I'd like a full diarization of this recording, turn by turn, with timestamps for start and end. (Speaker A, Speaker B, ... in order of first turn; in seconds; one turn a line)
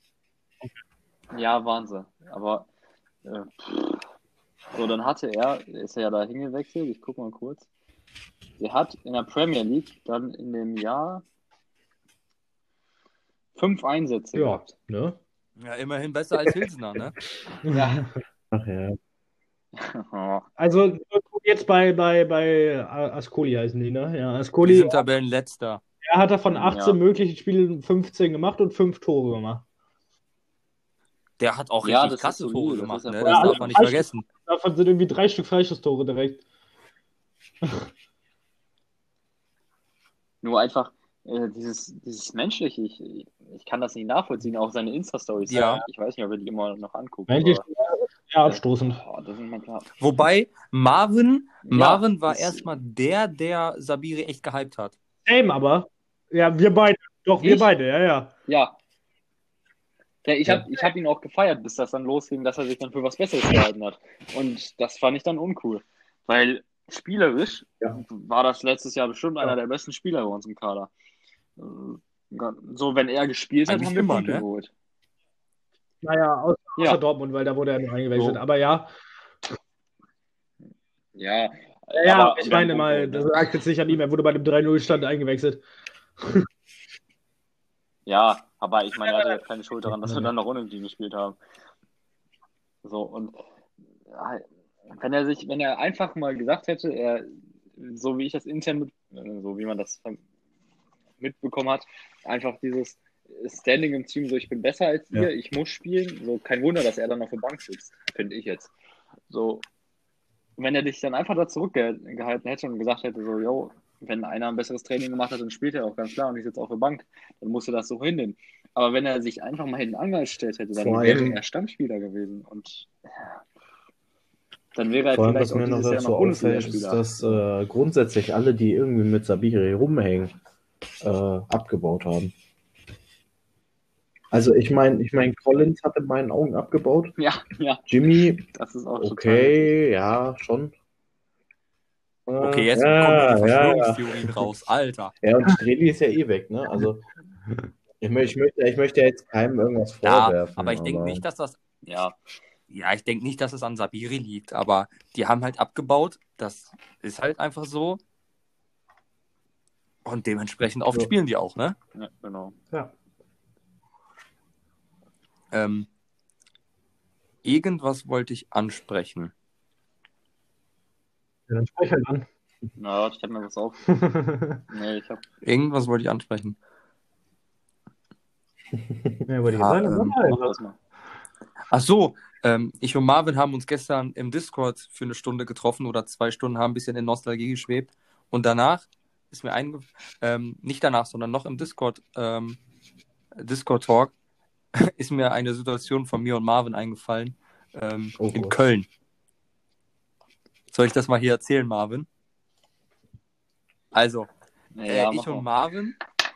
Speaker A: 1.3-2.7
Speaker A: 3.2-4.0
Speaker A: 4.7-7.7
Speaker A: 8.6-11.2
Speaker A: 13.5-14.7
Speaker B: 14.3-15.2
Speaker C: 15.6-17.2
Speaker B: 17.7-18.1
Speaker A: 17.7-18.1
Speaker D: 18.5-19.0
Speaker A: 19.7-20.4
Speaker B: 20.6-25.0
Speaker C: 24.6-25.8
Speaker B: 26.0-29.6
Speaker A: 26.5-27.0
Speaker C: 31.4-34.2
Speaker A: 31.8-33.8
Speaker B: 33.2-36.4
Speaker A: 40.4-47.6
Speaker C: 45.5-45.8
Speaker B: 45.5-45.8
Speaker B: 47.3-49.0
Speaker A: 48.4-49.9
Speaker C: 50.0-54.9
Speaker A: 51.6-52.7
Speaker B: 55.2-58.3
Speaker A: 57.4-57.7
Speaker A: 58.5-58.8
Speaker A: 60.2-70.9
Speaker A: 71.6-74.7
Speaker C: 73.7-74.4
Speaker B: 76.0-78.9
Speaker A: 78.1-78.4
Speaker A: 81.2-83.5
Speaker B: 81.9-85.6
Speaker B: 86.2-86.5
Speaker A: 88.0-91.4
Speaker B: 89.1-89.4
Speaker A: 92.8-93.4
Speaker A: 94.1-100.2
Speaker A: 101.2-108.7
Speaker A: 109.3-109.6
Speaker A: 110.6-123.4
Speaker D: 120.7-121.4
Speaker A: 124.7-127.4
Speaker D: 125.1-130.4
Speaker D: 131.0-132.3
Speaker D: 134.3-137.1
Speaker A: 137.2-137.9
Speaker D: 137.8-138.5
Speaker A: 138.4-139.7
Speaker D: 139.0-140.7
Speaker D: 142.3-144.3
Speaker C: 142.4-145.1
Speaker D: 145.2-147.1
Speaker D: 148.0-151.2
Speaker C: 150.0-151.6
Speaker A: 151.8-152.2
Speaker C: 152.7-158.0
Speaker C: 160.0-161.8
Speaker A: 161.9-162.6
Speaker C: 165.5-165.9
Speaker C: 167.4-169.3
Speaker B: 171.5-172.2
Speaker A: 172.8-173.8
Speaker B: 173.9-174.6
Speaker A: 174.7-175.2
Speaker C: 175.4-176.6
Speaker D: 178.8-179.2
Speaker B: 179.3-180.5
Speaker C: 179.5-180.2
Speaker A: 180.2-180.8
Speaker C: 181.7-192.6
Speaker C: 193.3-194.1
Speaker C: 194.7-198.8
Speaker D: 198.2-198.6
Speaker C: 200.7-202.1
Speaker C: 203.9-204.3
Speaker A: 204.8-205.5
Speaker C: 204.8-206.0